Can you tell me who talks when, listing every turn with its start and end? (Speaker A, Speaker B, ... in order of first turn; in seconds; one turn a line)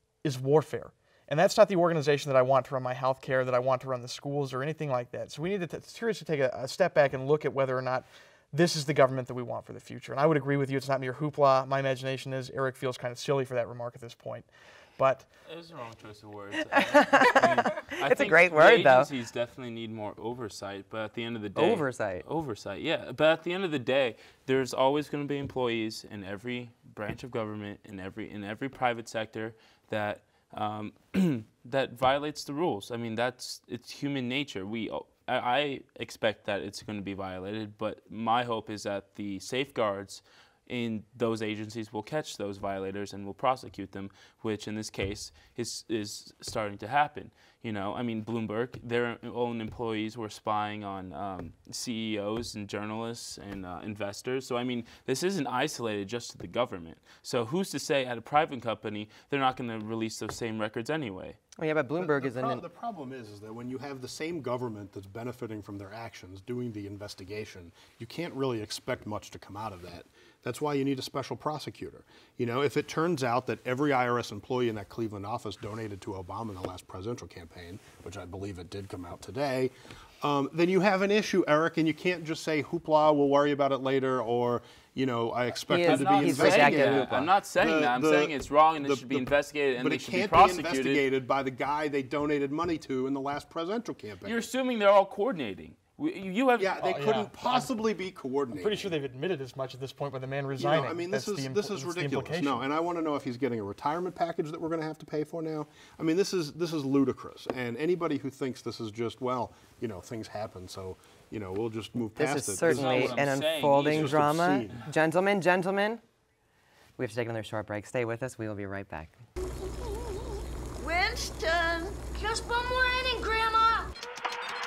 Speaker A: 0.2-15.3
Speaker B: 15.5-61.4
Speaker C: 16.7-19.1
Speaker C: 21.6-22.2
Speaker C: 61.6-62.6
Speaker D: 62.0-94.4
Speaker C: 85.7-87.3
Speaker B: 85.8-91.1
Speaker B: 94.2-96.8
Speaker D: 96.6-99.0
Speaker A: 96.8-97.8
Speaker A: 98.5-102.6
Speaker D: 100.6-114.8
Speaker C: 112.2-116.0
Speaker B: 112.6-114.3
Speaker C: 117.0-119.2
Speaker E: 119.6-123.9